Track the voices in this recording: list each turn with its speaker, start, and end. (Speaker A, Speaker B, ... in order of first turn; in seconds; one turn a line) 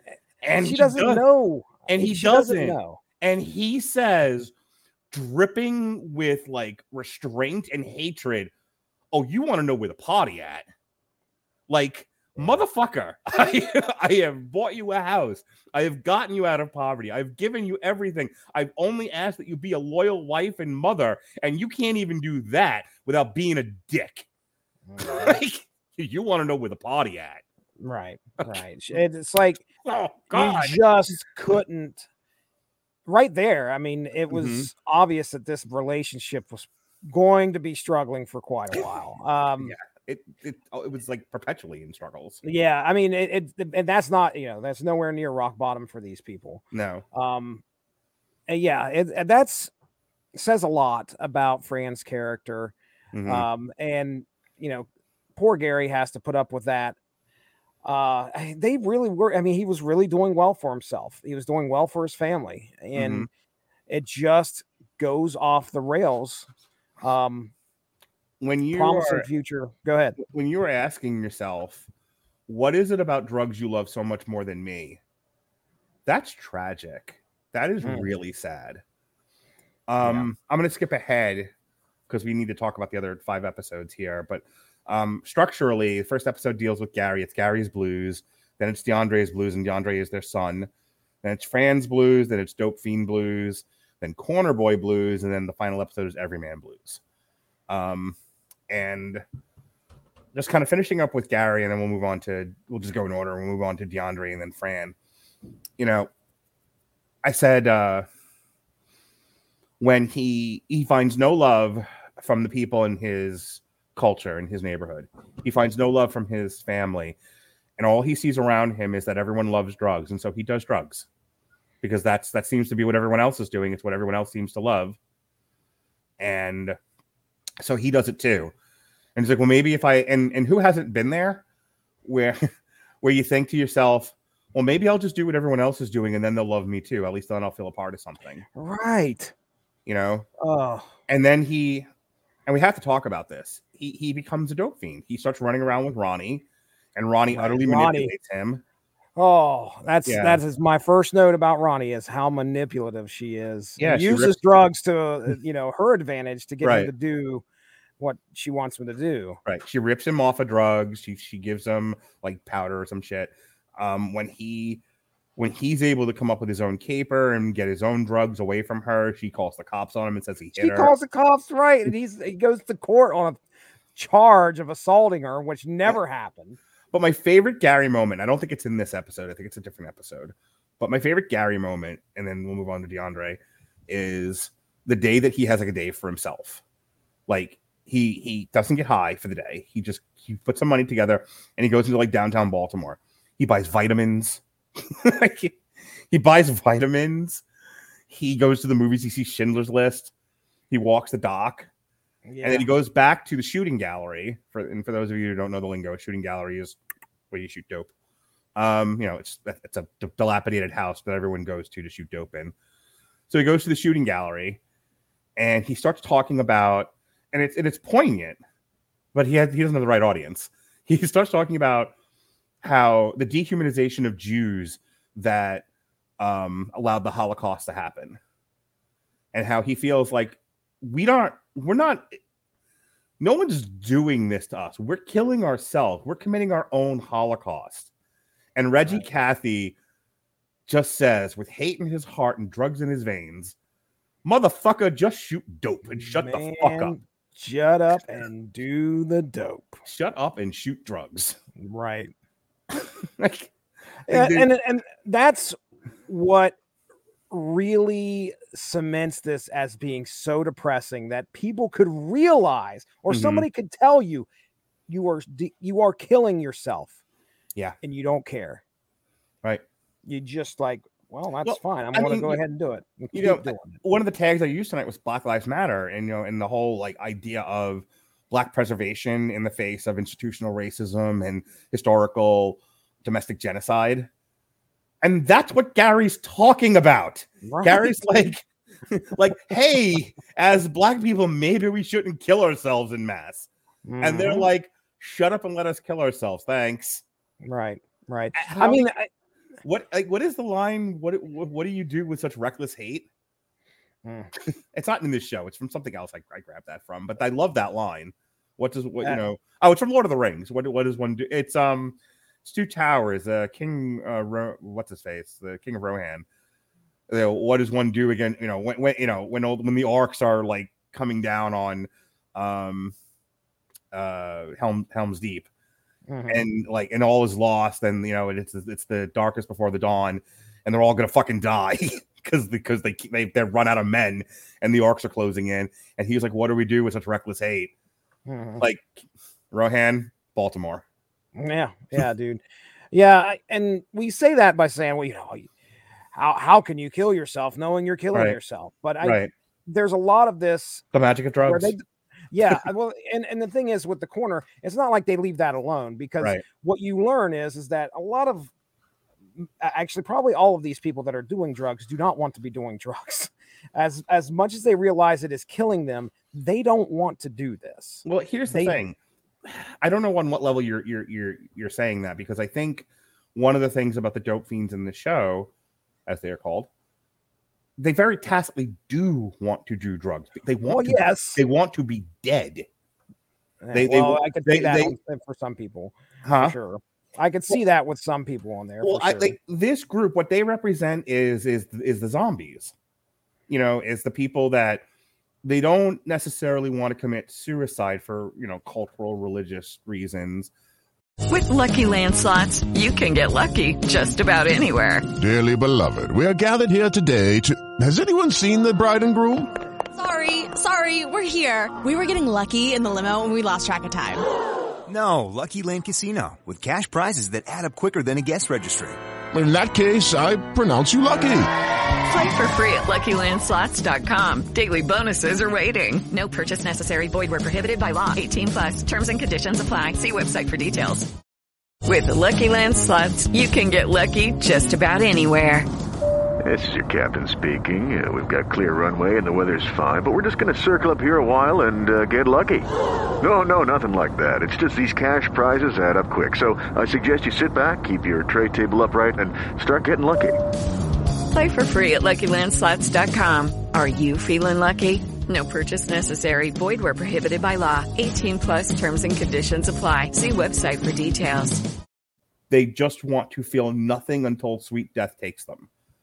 Speaker A: 0.4-1.2
Speaker B: 0.6-3.0
Speaker A: 1.9-4.5
Speaker A: 5.1-8.5
Speaker A: 9.1-10.7
Speaker A: 11.7-24.3
Speaker B: 24.9-25.4
Speaker A: 25.0-27.4
Speaker B: 27.8-29.6
Speaker A: 29.8-30.8
Speaker B: 30.3-32.0
Speaker B: 33.1-39.7
Speaker A: 34.3-34.7
Speaker A: 39.6-42.4
Speaker B: 42.4-47.6
Speaker A: 46.7-47.0
Speaker B: 48.5-49.7
Speaker B: 50.4-52.7
Speaker A: 53.1-53.5
Speaker B: 53.2-57.0
Speaker B: 57.9-63.3
Speaker A: 63.0-63.3
Speaker B: 63.9-66.5
Speaker B: 67.0-67.5
Speaker A: 68.4-69.3
Speaker B: 68.7-70.2
Speaker A: 70.2-71.9
Speaker A: 72.5-75.0
Speaker A: 76.1-78.8
Speaker B: 77.8-78.1
Speaker A: 79.9-81.5
Speaker B: 80.0-80.3
Speaker A: 82.1-90.7
Speaker A: 91.2-97.0
Speaker A: 97.7-98.2
Speaker A: 98.7-99.2
Speaker A: 100.3-105.0
Speaker A: 105.8-106.1
Speaker A: 107.2-108.1
Speaker A: 109.8-117.2
Speaker A: 117.8-121.1
Speaker A: 121.8-125.0
Speaker A: 126.2-126.8
Speaker A: 127.6-128.5
Speaker A: 129.2-131.4
Speaker A: 132.0-138.4
Speaker B: 138.6-139.3
Speaker A: 139.9-140.3
Speaker B: 140.4-140.9
Speaker A: 141.1-141.9
Speaker A: 142.5-148.6
Speaker B: 147.3-148.1
Speaker B: 149.2-157.4
Speaker A: 150.1-150.4
Speaker A: 153.8-154.4
Speaker A: 156.6-156.9
Speaker B: 158.0-159.4
Speaker A: 159.4-164.8
Speaker A: 165.4-170.9
Speaker B: 170.6-173.4
Speaker B: 173.9-176.6
Speaker A: 176.9-186.6
Speaker A: 187.3-195.6
Speaker A: 196.1-197.4
Speaker A: 198.1-200.1
Speaker A: 200.7-201.7
Speaker B: 202.3-202.7
Speaker A: 202.4-206.8
Speaker A: 207.3-207.9
Speaker A: 208.6-212.5
Speaker A: 213.3-214.6
Speaker A: 215.4-218.4
Speaker A: 219.1-221.9
Speaker A: 222.6-225.7
Speaker A: 226.2-228.2
Speaker A: 229.3-232.2
Speaker A: 233.2-237.9
Speaker A: 238.6-239.8
Speaker A: 240.7-243.6
Speaker A: 244.2-246.9
Speaker B: 246.0-249.8
Speaker A: 249.8-251.4
Speaker B: 251.6-252.1
Speaker A: 252.7-253.5
Speaker A: 254.1-254.5
Speaker B: 254.1-256.6
Speaker B: 257.3-264.3
Speaker A: 263.1-263.5
Speaker B: 264.9-267.0
Speaker B: 267.8-268.6
Speaker B: 270.1-273.8
Speaker A: 271.4-272.4
Speaker A: 273.1-284.1
Speaker A: 285.0-293.5
Speaker B: 287.4-288.0
Speaker B: 293.9-294.5
Speaker A: 294.0-297.0
Speaker B: 297.4-299.1
Speaker A: 298.4-298.9
Speaker A: 299.6-303.1
Speaker B: 304.1-304.3
Speaker A: 304.7-316.3
Speaker A: 317.1-322.9
Speaker A: 323.9-325.5
Speaker B: 326.1-326.5
Speaker A: 326.3-337.7
Speaker B: 338.3-338.7
Speaker A: 338.6-340.8
Speaker B: 341.4-342.4
Speaker B: 342.9-345.5
Speaker B: 346.1-350.9
Speaker A: 348.1-348.4
Speaker A: 349.0-349.3
Speaker A: 350.9-351.7
Speaker B: 351.4-358.5
Speaker B: 359.4-368.8
Speaker A: 368.1-375.5
Speaker A: 376.1-376.7
Speaker A: 377.8-382.7
Speaker B: 380.6-381.4
Speaker B: 383.6-389.4
Speaker A: 383.7-384.9
Speaker A: 386.2-386.6
Speaker A: 388.8-392.7
Speaker A: 393.5-394.9
Speaker A: 395.4-400.5
Speaker C: 401.3-405.1
Speaker D: 405.2-409.5
Speaker E: 409.9-414.3
Speaker F: 414.9-419.0
Speaker D: 419.3-421.5
Speaker C: 422.1-431.1
Speaker C: 431.9-435.7
Speaker G: 436.4-442.7
Speaker G: 443.2-450.4
Speaker C: 451.3-461.7
Speaker A: 462.5-465.7